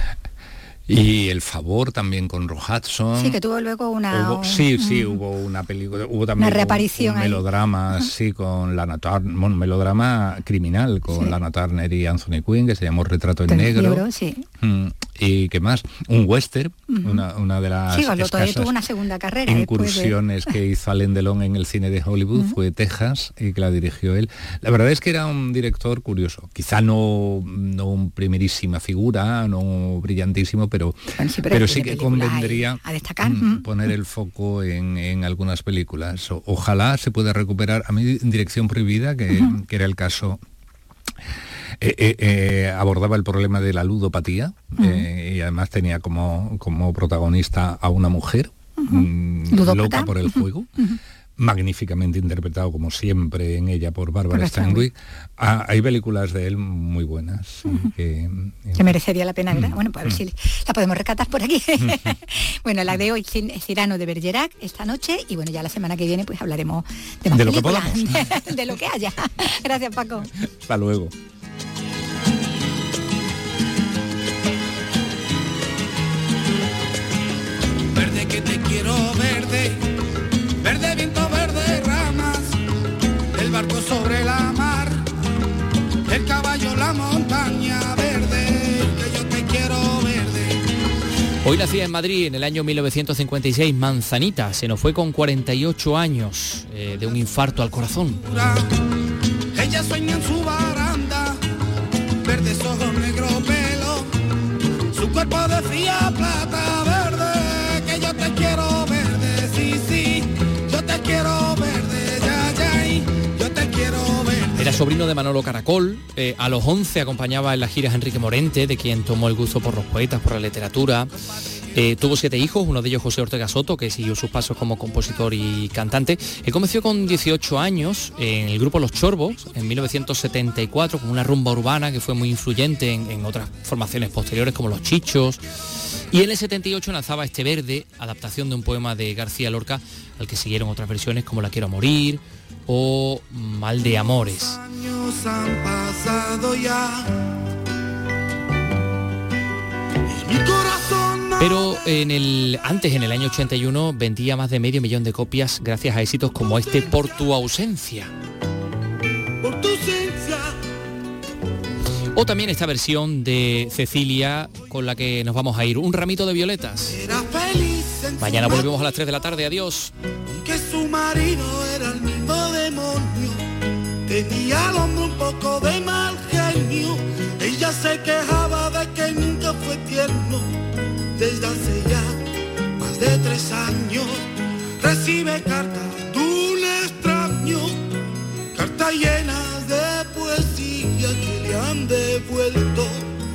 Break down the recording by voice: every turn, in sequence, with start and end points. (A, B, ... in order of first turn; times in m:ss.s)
0:00.9-0:03.4 A
0:03.2-0:05.1 B
0:04.1-0:14.1 A
0:06.4-0:07.4 B
0:13.5-0:14.5 B
0:14.6-0:18.7 A
0:16.9-0:17.2 B
0:17.9-0:20.2 B
0:19.5-0:40.4 A
0:31.2-0:33.6 B
0:41.8-0:50.7 A
0:44.8-0:45.0 B
0:48.8-0:51.0 B
0:51.4-0:58.9 A
0:54.3-0:54.8 B
0:58.8-1:10.3 B
0:59.5-1:00.2 A
1:07.3-1:08.5 A
1:10.6-1:11.1 A
1:17.9-1:19.8 C
1:20.6-1:22.6 C
1:23.3-1:25.1 C
1:26.1-1:30.6 C
1:31.4-1:38.2 D
1:38.2-1:38.7 C
1:39.5-1:41.4 C
1:42.2-1:44.1 C
1:44.9-1:54.8 C
1:54.6-2:01.1 D
2:01.7-2:15.4 D
2:16.1-2:24.6 D
2:24.4-2:27.3 C
2:30.1-2:31.8 C
2:31.4-2:38.1 D
2:36.5-2:37.1 C
2:39.4-2:40.6 C
2:42.2-2:47.0 D
2:46.9-2:48.8 C
2:48.2-2:49.9 D
2:50.3-2:53.4 C
2:54.1-3:00.6 C
3:01.2-3:02.2 C
3:02.8-3:04.2 C
3:04.8-3:07.9 C
3:08.5-3:13.0 C